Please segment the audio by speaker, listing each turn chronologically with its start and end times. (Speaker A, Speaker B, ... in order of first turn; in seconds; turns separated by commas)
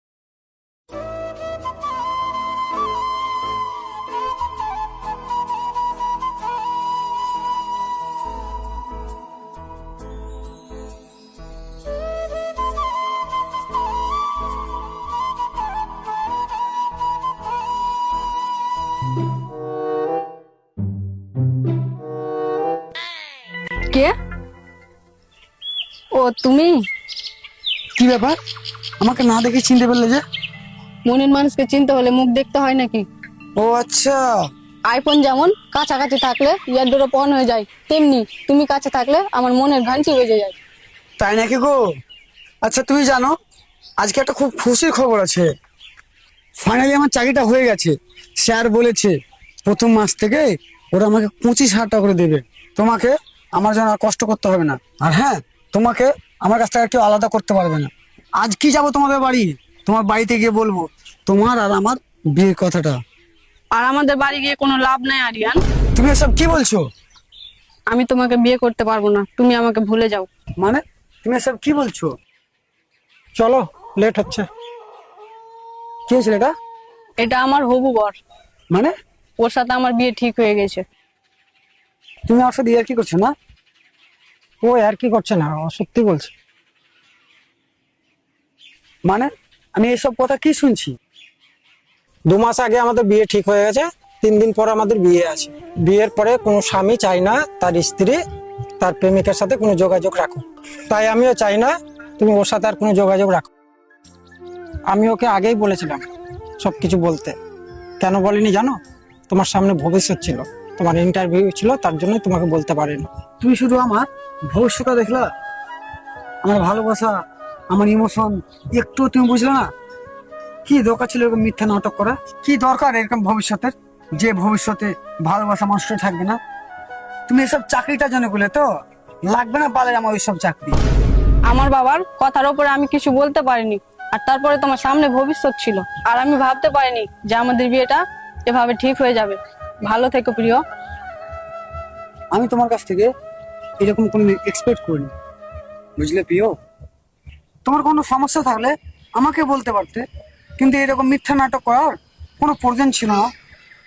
Speaker A: 26.1-26.7, Speaker B: 27.9-28.4, Speaker B: 29.0-30.2, Speaker A: 31.1-33.0, Speaker B: 33.6-34.3, Speaker A: 34.9-40.5, Speaker B: 41.2-41.8, Speaker B: 42.6-43.3, Speaker B: 44.0-45.5, Speaker B: 46.6-63.0, Speaker A: 63.7-65.6, Speaker B: 65.9-66.8, Speaker A: 67.9-70.3, Speaker B: 70.6-72.1, Speaker C: 73.3-74.5, Speaker B: 76.1-76.5, Speaker A: 77.2-78.2, Speaker A: 79.4-80.8, Speaker B: 82.3-83.3, Speaker C: 84.6-86.3, Speaker B: 89.0-90.9, Speaker C: 92.3-98.2, Speaker C: 98.8-103.5, Speaker C: 104.9-106.0, Speaker C: 106.6-107.3, Speaker C: 108.0-108.8, Speaker C: 109.3-113.1, Speaker B: 113.4-115.3, Speaker B: 116.4-117.2, Speaker B: 117.7-119.7, Speaker B: 120.7-126.4, Speaker B: 127.3-128.7, Speaker B: 129.3-130.8, Speaker A: 131.4-140.6, Speaker B: 142.3-143.1, Speaker B: 143.8-145.1, Speaker B: 146.0-146.5, Speaker B: 147.6-150.0, Speaker B: 150.6-153.3